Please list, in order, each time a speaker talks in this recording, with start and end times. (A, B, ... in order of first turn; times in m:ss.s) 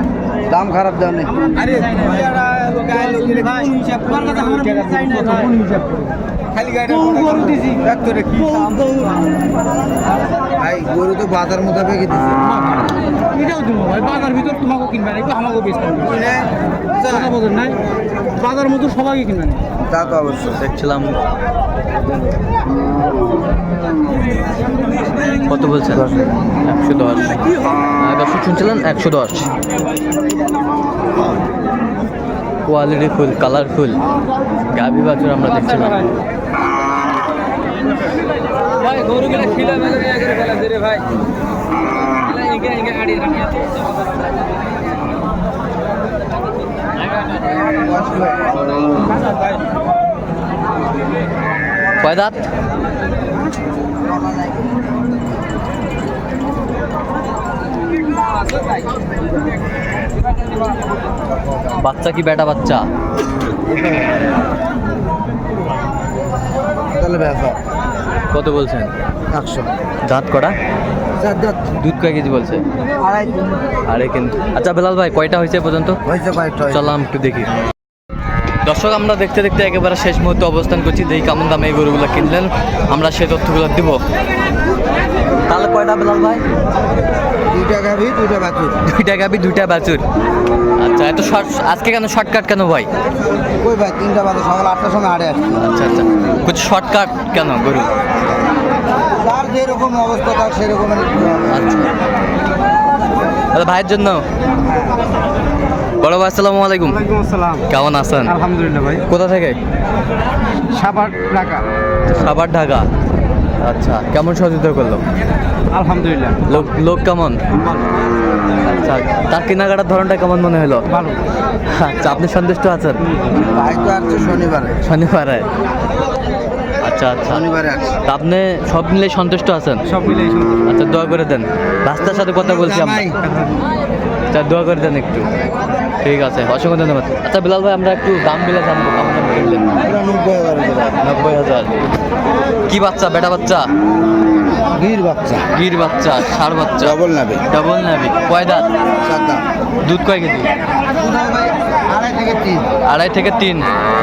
0:00.4-0:01.3 A
0:01.5-0:09.1 B
0:10.6-0:12.4 A
0:12.5-0:16.2 B
0:16.1-0:16.5 A
0:17.0-0:17.8 B
0:18.3-0:19.6 B
0:19.8-0:20.6 A
0:20.1-0:21.2 C
0:25.5-0:26.0 C
0:25.9-0:26.3 A
0:26.6-0:29.5 C
0:32.7-0:34.0 C
0:34.7-0:36.0 C
0:38.9-0:40.9 B
0:42.8-0:43.1 B
0:47.7-0:48.6 A
0:52.0-0:52.4 C
1:01.4-1:01.7 A
1:01.8-1:02.8 C
1:03.7-1:04.1 A
1:06.9-1:07.6 A
1:08.3-1:08.9 C
1:09.3-1:09.7 A
1:10.1-1:10.5 C
1:11.2-1:11.6 A
1:11.7-1:12.6 C
1:13.0-1:13.4 A
1:13.9-1:16.0 C
1:16.0-1:16.9 A
1:16.7-1:17.5 C
1:18.6-1:24.0 C
1:25.5-1:26.4 C
1:27.5-1:28.8 A
1:28.8-1:30.0 C
1:30.8-1:32.9 C
1:33.4-1:35.6 A
1:35.6-1:37.9 C
1:39.1-1:41.5 A
1:41.5-1:41.9 C
1:43.5-1:44.2 C
1:46.0-1:47.0 C
1:47.0-1:47.6 B
1:47.7-1:48.4 C
1:48.3-1:49.0 B
1:49.0-1:49.6 C
1:50.7-1:51.6 B
1:52.1-1:52.8 C
1:53.6-1:55.0 C
1:55.7-1:56.6 B
1:56.4-1:57.4 C
1:57.5-1:57.9 B
1:58.6-2:00.8 C
2:00.9-2:01.2 B
2:01.6-2:03.0 C
2:03.5-2:04.8 A
2:04.8-2:05.5 C
2:06.8-2:07.4 C
2:07.3-2:08.0 A
2:08.0-2:09.8 C
2:09.8-2:10.6 B
2:10.6-2:13.1 C
2:12.0-2:13.2 A
2:14.3-2:15.3 C
2:16.0-2:19.8 C
2:19.8-2:21.0 A
2:21.0-2:21.8 C
2:22.7-2:23.7 C
2:24.7-2:25.5 A
2:25.5-2:27.0 C
2:26.8-2:27.5 A
2:27.5-2:28.7 C
2:29.0-2:29.4 A
2:29.8-2:30.5 C
2:30.9-2:32.7 A
2:32.8-2:33.6 C